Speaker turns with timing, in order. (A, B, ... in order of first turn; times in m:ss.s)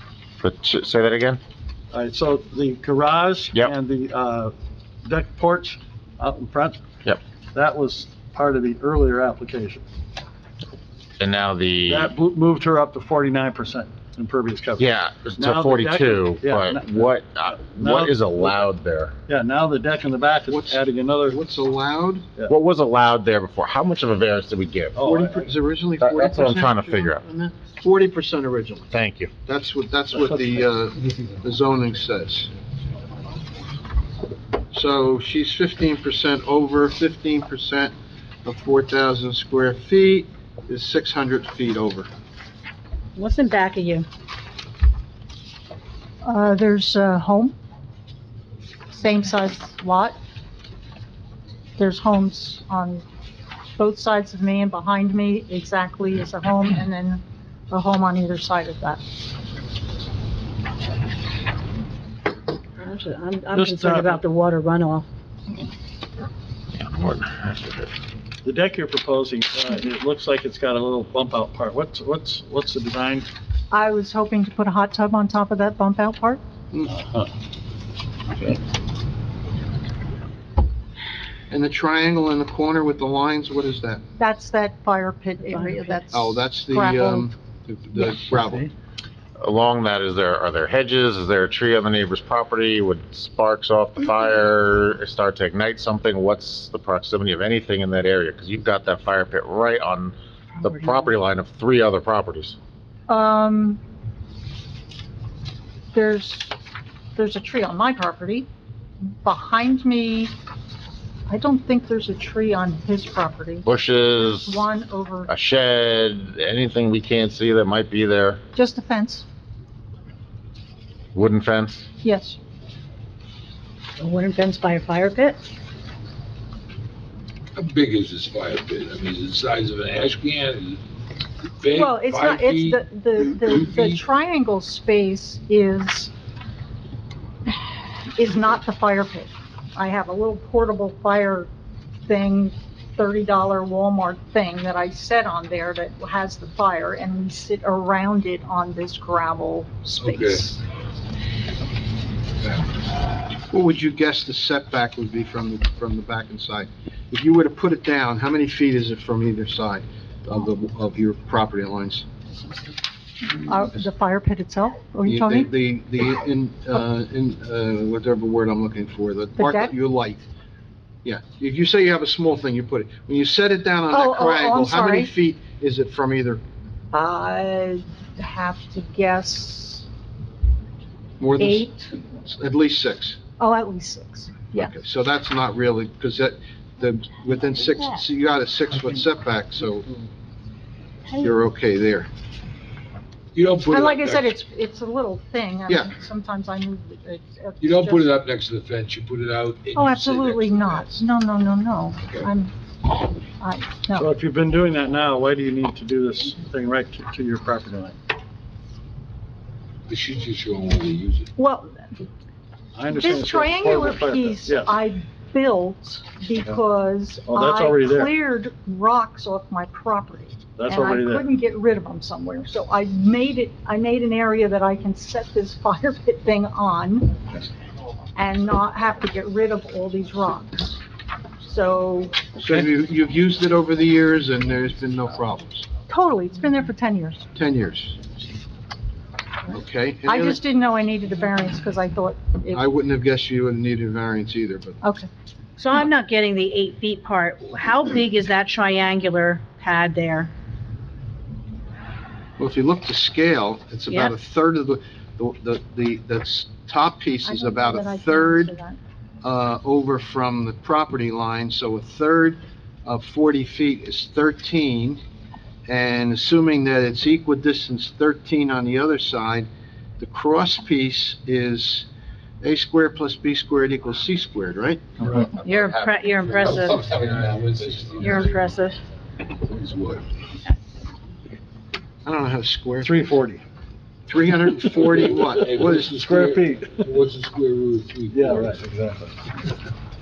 0:00.4-0:01.4 A
0:01.9-0:06.8 B
0:07.5-0:09.8 B
0:11.2-0:12.1 A
0:11.9-0:18.6 B
0:14.8-0:19.1 A
0:19.3-0:21.4 B
0:20.5-0:22.3 C
0:22.5-0:25.0 A
0:25.0-0:25.5 B
0:25.0-0:28.9 C
0:26.0-0:27.2 A
0:28.9-0:29.3 A
0:29.5-0:32.5 C
0:30.1-0:30.6 B
0:34.7-0:37.9 C
0:38.4-0:42.1 C
0:43.2-0:44.1 D
0:46.2-0:47.6 E
0:48.9-0:50.2 E
0:51.8-0:53.0 E
0:53.8-0:59.0 E
1:02.8-1:05.1 D
1:03.5-1:04.2 B
1:06.7-1:07.9 A
1:08.4-1:13.3 B
1:13.7-1:16.4 E
1:21.5-1:24.0 C
1:24.2-1:27.3 E
1:25.5-1:26.1 D
1:26.1-1:28.7 C
1:28.0-1:28.7 B
1:29.4-1:42.6 A
1:43.1-1:43.8 E
1:45.9-1:46.6 E
1:47.2-1:48.5 E
1:49.2-1:50.3 E
1:51.3-1:53.6 E
1:53.6-1:54.6 A
1:54.4-1:55.3 E
1:55.3-1:58.4 A
1:58.6-1:59.2 E
2:01.1-2:01.8 A
2:02.0-2:02.4 E
2:04.0-2:05.4 D
2:07.6-2:10.8 F
2:11.6-2:14.0 F
2:11.8-2:16.1 E
2:18.1-2:21.5 E
2:22.1-2:30.6 E
2:30.0-2:30.4 F
2:33.5-2:42.1 C
2:43.4-2:45.5 E
2:45.1-2:50.3 C
2:49.4-2:49.7 E
2:51.0-2:56.4 C
2:53.9-2:55.1 E
2:56.9-2:59.8 E
3:01.2-3:03.2 C
3:01.4-3:01.9 E
3:03.4-3:04.7 E
3:04.5-3:09.9 C
3:11.2-3:12.1 C
3:13.3-3:14.3 F
3:13.7-3:18.0 E
3:15.7-3:15.9 C
3:17.6-3:21.0 F
3:19.8-3:22.5 E
3:23.4-3:24.0 E
3:24.0-3:28.0 B
3:29.9-3:31.3 F
3:31.4-3:31.7 E
3:32.8-3:34.7 B
3:33.0-3:47.2 E
3:37.2-3:38.1 B
3:40.6-3:41.3 B
3:48.2-3:50.8 E
3:51.4-3:52.2 E
3:52.3-3:55.8 C
3:55.9-3:57.2 E
3:57.3-3:58.0 C
3:59.5-4:00.4 C
4:00.1-4:02.6 E
4:02.5-4:04.8 C
4:04.8-4:05.1 E
4:05.6-4:10.3 D
4:12.4-4:18.6 C
4:17.2-4:18.8 E
4:19.2-4:25.0 C
4:25.7-4:31.9 C
4:32.4-4:34.8 C
4:35.0-4:35.3 B
4:35.4-4:36.9 D
4:36.2-4:38.4 F
4:38.0-4:38.8 D
4:39.4-4:40.0 F
4:42.0-4:43.0 C
4:42.8-4:43.4 B
4:44.1-4:45.7 C
4:44.8-4:48.6 F
4:45.5-4:46.7 B
4:48.1-4:49.1 B